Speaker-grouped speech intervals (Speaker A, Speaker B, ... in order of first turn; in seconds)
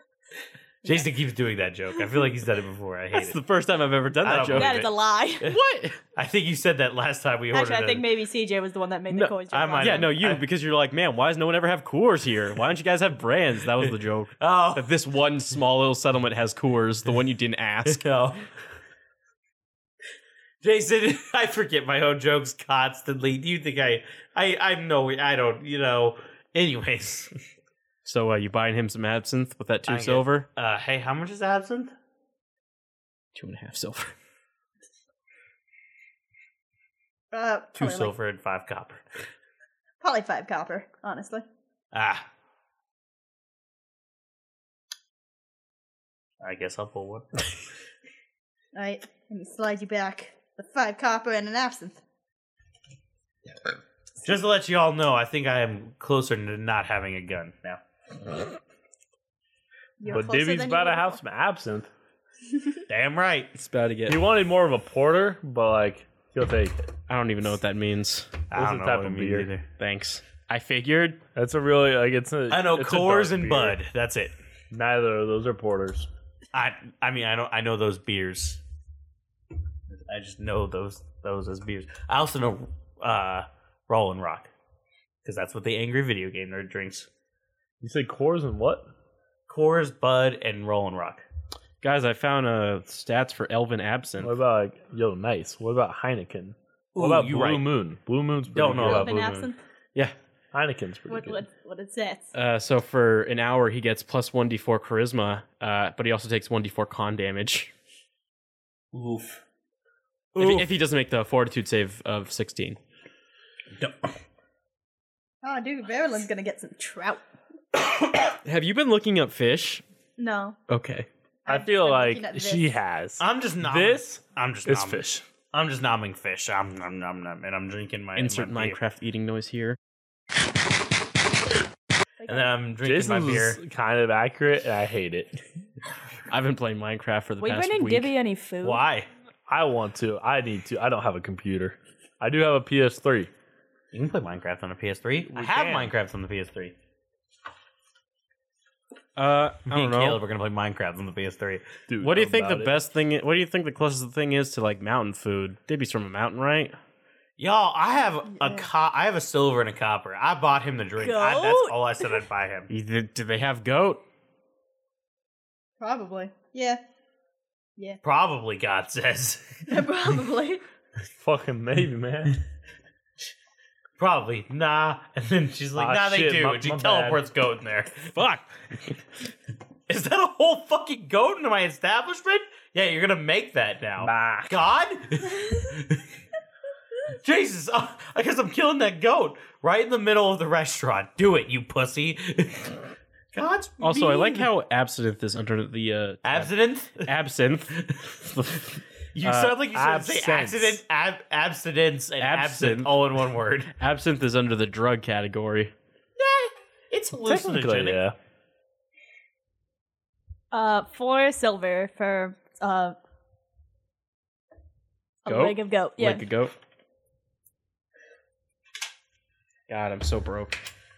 Speaker A: 0.8-3.4, 4.2-4.9, 6.1-8.1, 9.5-10.4, 13.8-14.9, 17.9-18.5, 20.6-27.3, 29.9-31.9, 37.8-39.0, 41.9-42.3, 46.4-47.4, 54.2-57.8, 62.9-63.5, 68.5-69.7, 72.5-74.3, 76.5-78.6, 79.9-84.5, 85.2-87.1, 89.5-91.2, 96.9-97.7, 98.5-99.5, 108.9-109.4, 110.3-110.7, 113.8-114.0, 123.2-128.8, 132.3-133.6, 138.6-139.1, 143.9-146.8, 149.7-151.7, 157.4-162.7, 168.0-169.9, 174.0-178.4, 179.9-186.0, 187.2-192.8, 193.3-194.5, 196.2-197.1, 197.7-198.2, 199.1-203.7, 206.2-208.1
Speaker B: 3.1-4.9, 5.4-6.0, 9.1-18.0, 28.1-30.5, 33.3-34.1, 63.5-64.2, 67.1-68.4, 69.8-71.2, 91.8-94.4, 102.3-107.7, 110.4-112.8, 118.5-119.8, 120.7-121.1, 128.2-129.8, 136.3-138.1, 149.2-150.2, 152.0-156.8, 162.7-164.0, 193.8-199.6, 202.2-202.9, 203.8-205.7, 215.3-216.5, 219.7-220.6
Speaker C: 4.5-5.5, 7.5-10.1, 37.3-38.1, 40.0-41.5, 48.8-52.0, 60.0-61.2, 98.8-99.6, 101.1-102.3, 115.4-117.2, 120.2-120.6, 121.5-122.7, 137.4-138.8, 158.4-158.7, 161.0-162.2, 165.8-166.8, 169.7-170.6, 210.5-213.0, 215.2-216.3
Speaker D: 60.1-61.9, 64.1-66.8, 68.5-69.5, 71.3-73.8, 74.7-76.1, 87.8-88.9, 94.2-99.1, 100.5-101.4, 121.5-125.2, 132.8-135.4, 139.5-143.3, 145.2-145.9, 151.9-152.8, 171.2-172.4, 175.8-177.2, 184.0-184.6, 199.7-200.8, 207.2-208.2